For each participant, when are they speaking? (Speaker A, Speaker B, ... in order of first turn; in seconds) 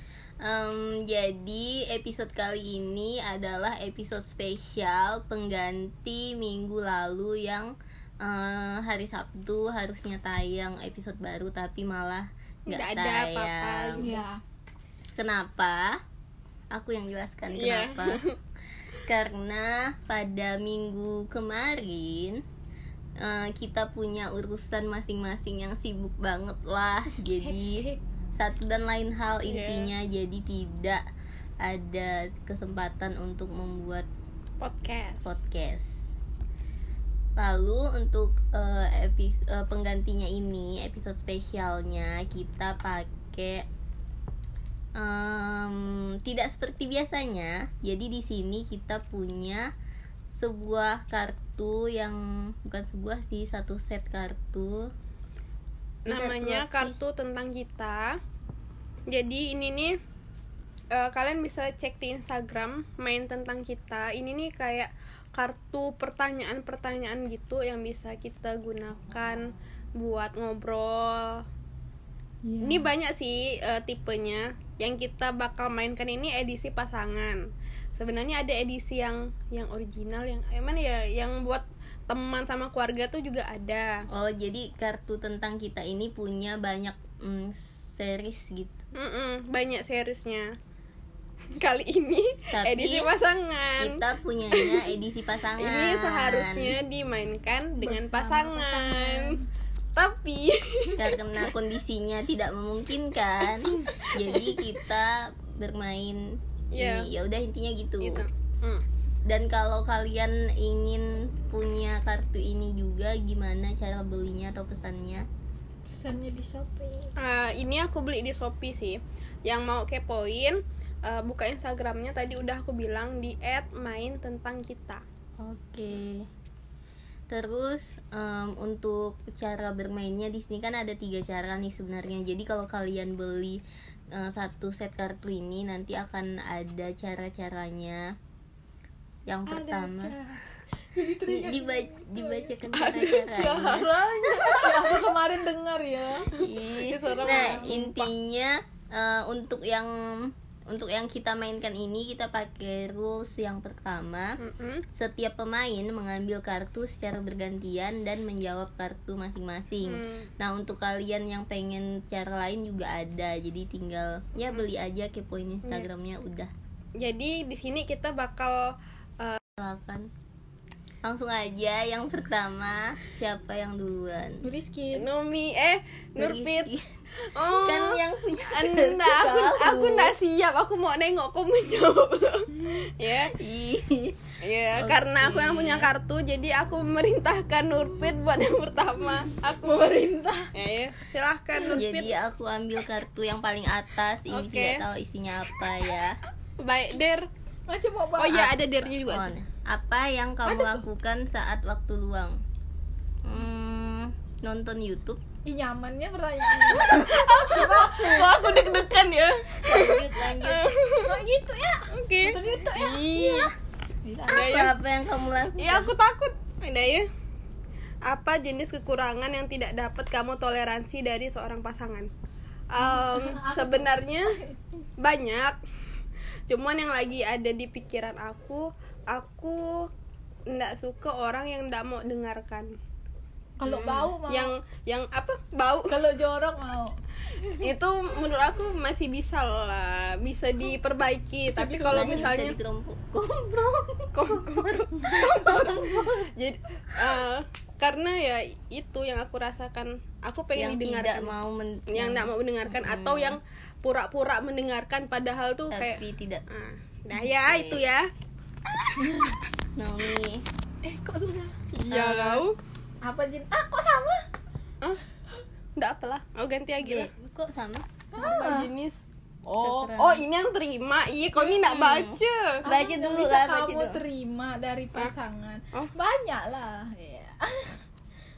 Speaker A: 0.4-14.1, 15.2-16.0, 16.7-18.2, 19.1-22.4, 23.2-27.8, 28.4-31.0, 31.6-34.1, 35.2-36.0, 37.4-43.7, 45.0-49.7, 50.3-54.9, 56.1-56.9, 84.1-88.8, 92.5-93.1, 93.8-96.8, 101.0-108.2, 109.2-115.2, 125.4-126.3, 127.3-133.6, 134.1-138.1, 139.3-140.1, 141.3-143.9, 146.3-154.4, 154.9-166.5, 169.6-170.1, 171.0-174.4, 176.2-180.1, 183.3-185.9, 191.7-196.2, 198.9-202.4, 203.2-205.2, 206.8-207.3, 209.6-210.7, 214.3-215.9, 233.6-234.1, 241.9-246.3, 250.6-253.4, 255.7-256.4, 257.1-257.8, 259.8-260.4, 261.9-262.5, 266.8-267.9, 269.6-270.2, 271.4-274.0
Speaker B: 12.7-14.2, 17.5-18.3, 29.5-29.9, 34.6-35.3, 56.0-58.2, 59.1-60.0, 60.9-71.4, 72.6-77.5, 78.0-84.0, 89.0-90.5, 91.5-94.0, 94.5-94.8, 95.6-99.4, 100.0-101.2, 103.6-104.6, 106.7-107.1, 108.0-108.8, 117.2-125.0, 142.7-145.1, 146.4-148.1, 154.4-154.8, 159.8-160.3, 167.0-169.4, 174.9-176.7, 177.2-178.0, 178.5-183.3, 184.4-190.0, 190.5-192.1, 194.3-194.8, 196.6-197.3, 198.2-199.3, 206.7-211.2, 211.9-213.5, 214.3-214.7, 215.6-217.1, 218.0-222.1, 222.7-224.3, 225.0-225.6, 226.5-229.9, 230.5-232.7, 234.3-236.0, 237.6-242.6, 244.1-251.3, 251.9-258.1, 261.7-262.6, 265.8-267.1, 268.2-269.0, 269.9-272.6
Speaker C: 14.0-14.4, 27.4-28.0, 72.4-72.9, 97.8-99.4, 115.9-117.1, 139.5-142.5, 144.3-146.4, 147.1-147.7, 174.4-175.0, 189.6-190.5, 197.7-198.5, 200.4-200.8, 205.4-208.5, 211.0-213.4, 214.0-214.7, 222.8-224.6, 233.6-234.5, 235.9-236.9, 241.5-242.4, 259.0-259.4, 260.8-261.5, 263.0-264.2, 268.1-268.7, 269.5-269.9, 272.6-277.8